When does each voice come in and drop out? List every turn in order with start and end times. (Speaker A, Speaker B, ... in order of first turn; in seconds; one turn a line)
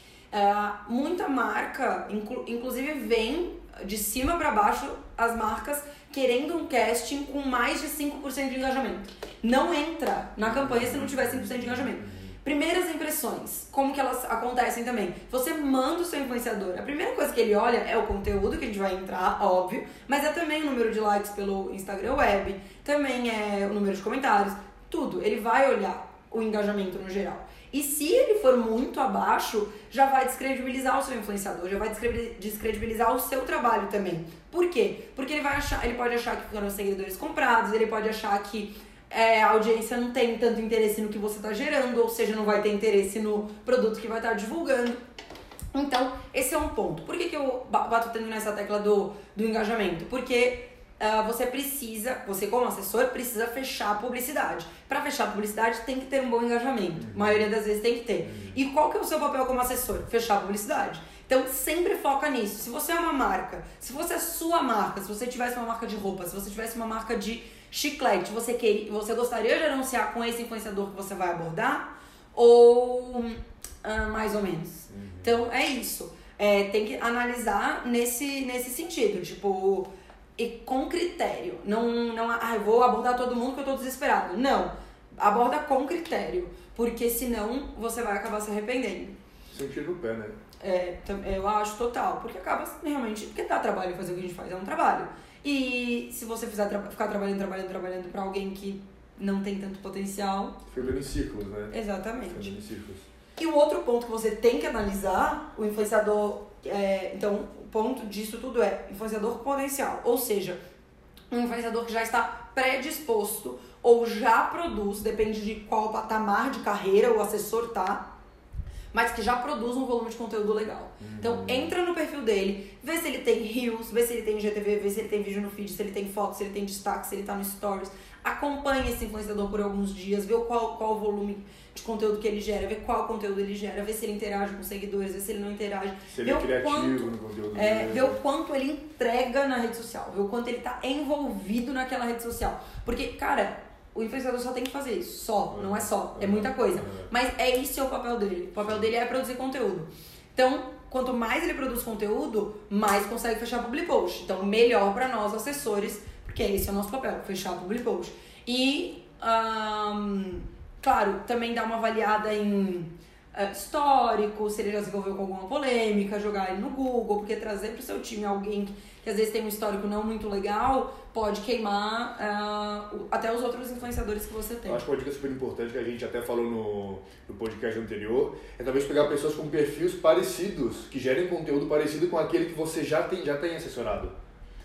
Speaker A: 0.3-45.0
Speaker B: 10.4-12.3
Speaker A: 45.7-89.2
Speaker B: 57.0-57.4
Speaker B: 58.2-58.6
Speaker B: 74.9-75.3
Speaker B: 89.5-90.3
Speaker A: 90.6-100.7
Speaker B: 100.7-103.1
Speaker A: 101.7-102.5
Speaker A: 103.4-110.6
Speaker A: 111.3-118.1
Speaker A: 118.9-174.8
Speaker B: 121.0-121.7
Speaker B: 136.1-138.2
Speaker B: 145.5-147.1
Speaker B: 174.7-184.1